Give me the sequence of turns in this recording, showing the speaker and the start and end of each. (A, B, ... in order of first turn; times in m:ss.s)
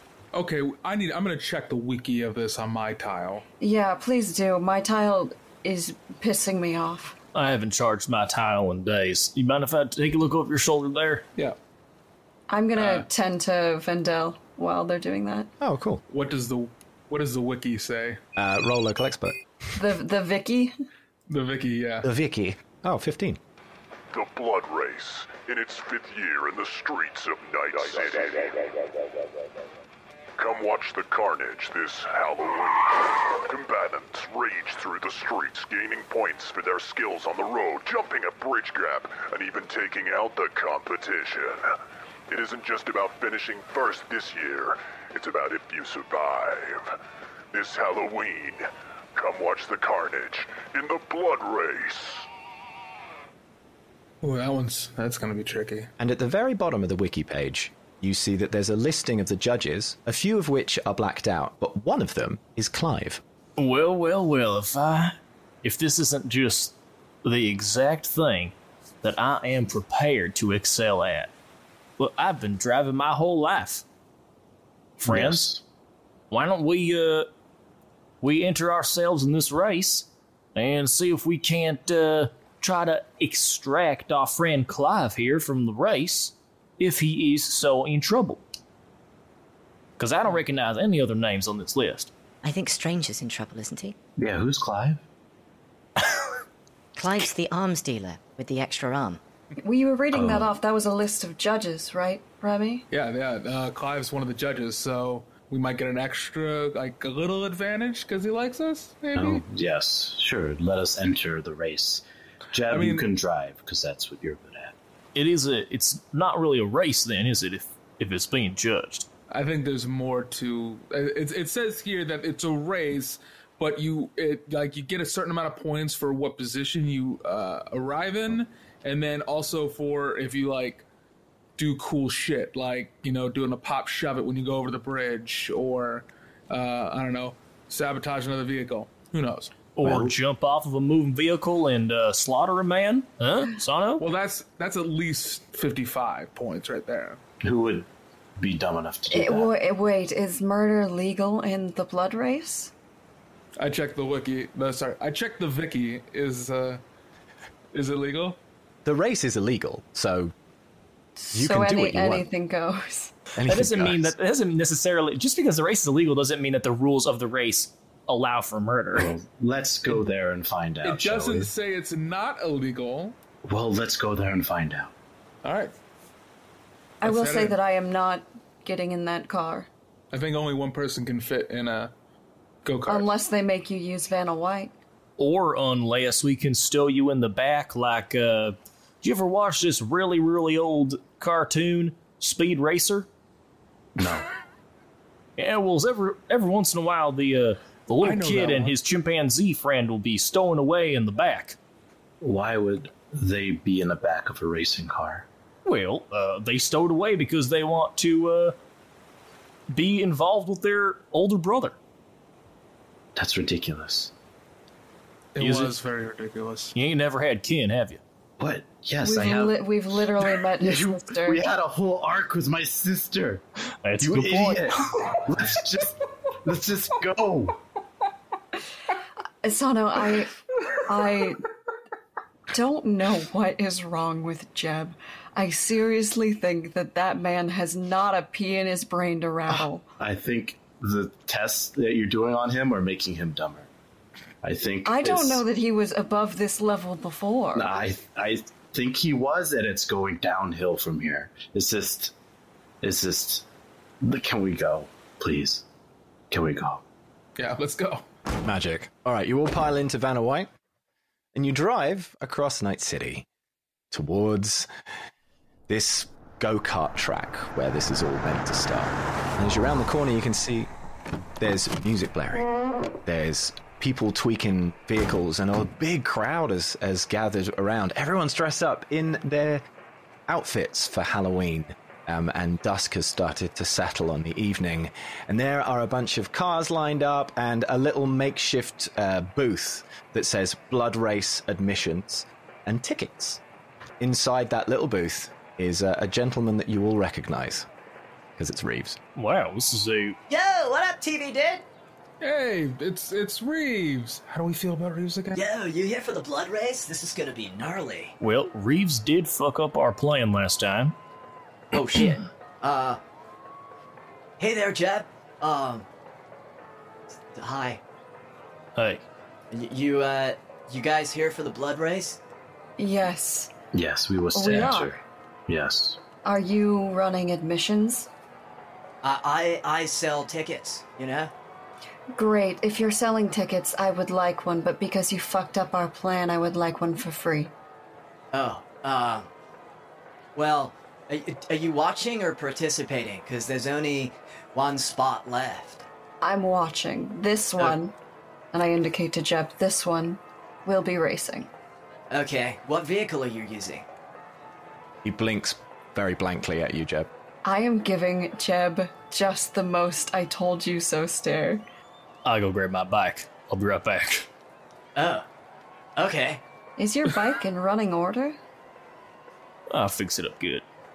0:00.3-0:03.4 A
0:03.6-0:07.1 B
0:07.3-0:11.2 C
0:12.5-0:15.5 B
0:12.8-0:13.0 A
0:15.6-0:16.0 D
0:16.1-0:18.2 A
0:18.4-0:19.4 D
0:19.8-0:20.7 B
0:21.3-0:22.1 A
0:22.0-0:23.4 D
0:24.1-0:28.7 E
0:30.4-0:41.7 E
0:42.3-0:46.9 E
0:47.5-0:52.2 E
0:54.2-0:55.9 A
0:56.0-1:03.2 D
1:03.6-1:11.3 C
1:12.0-1:13.8 C
1:15.0-1:15.4 C
1:15.0-1:15.6 F
1:16.3-1:17.3 C
1:18.2-1:28.4 C
1:30.0-1:32.1 C
1:32.4-1:34.0 G
1:34.2-1:35.0 F
1:37.0-1:39.2 G
1:39.6-1:42.8 B
1:40.1-1:40.5 F
1:42.9-1:49.4 A
1:49.2-1:54.7 F
1:52.7-1:53.1 A
1:55.1-1:59.1 C
1:59.3-2:10.8 A
2:11.6-2:19.5 A
2:19.8-2:24.0 C
2:19.8-2:20.1 F
2:24.0-2:27.2 A
2:27.4-2:29.5 F
2:29.1-2:32.7 B
2:33.6-2:36.8 A
2:37.7-2:38.4 A
2:38.8-2:40.3 D
2:41.2-2:43.1 B
2:41.3-2:42.3 D
2:43.4-2:44.1 D
2:43.5-2:49.1 C
2:48.9-2:51.5 F
2:50.8-2:53.2 A
2:53.4-2:54.9 F
2:55.4-2:55.7 A
2:57.0-2:59.7 B
2:57.0-2:57.6 A
3:00.1-3:01.9 A
3:02.6-3:03.1 A
3:02.9-3:04.7 B
3:05.2-3:13.1 C
3:14.0-3:14.2 F
3:15.4-3:21.6 C
3:18.0-3:18.7 A
3:22.2-3:25.2 F
3:25.6-3:28.5 C
3:29.7-3:31.8 C
3:33.2-3:34.1 F
3:35.3-3:36.7 A
3:35.4-3:35.8 C
3:36.7-3:38.0 C
3:38.4-3:39.6 F
3:39.0-3:41.4 B
3:40.6-3:43.4 F
3:43.8-3:45.2 C
3:44.0-3:47.6 F
3:49.4-3:51.4 B
3:52.5-3:59.8 B
4:00.0-4:03.7 F
4:04.4-4:05.4 F
4:04.8-4:07.7 B
4:07.5-4:12.1 F
4:12.8-4:13.4 F
4:14.0-4:15.6 F
4:16.3-4:16.8 F
4:17.4-4:18.0 A
4:18.4-4:20.5 D
4:21.3-4:23.2 D
4:23.9-4:24.7 D
4:25.7-4:30.7 D
4:31.4-4:32.5 D
4:33.0-4:39.6 D
4:40.3-4:53.4 D
4:54.0-4:57.7 D
4:58.4-4:59.0 D
4:59.2-5:00.2 C
5:00.3-5:01.6 H
5:02.2-5:05.4 A
5:05.3-5:08.1 H
5:08.2-5:10.9 C
5:11.7-5:13.0 H
5:14.4-5:15.8 H
5:17.3-5:17.8 H
5:18.8-5:19.0 C
5:19.5-5:22.2 H
5:22.8-5:23.5 B
5:23.7-5:26.0 F
5:24.3-5:25.0 B
5:26.2-5:28.1 B
5:29.0-5:31.3 H
5:32.1-5:37.5 B
5:38.3-5:39.3 H
5:40.3-5:45.8 H
5:46.2-5:47.9 B
5:48.5-5:51.5 B
5:52.1-5:53.8 H
5:55.0-5:57.1 D
5:57.4-6:01.6 B
6:02.2-6:04.3 C
6:05.0-6:05.2 H
6:06.0-6:06.4 H
6:06.8-6:08.4 B
6:09.7-6:10.6 C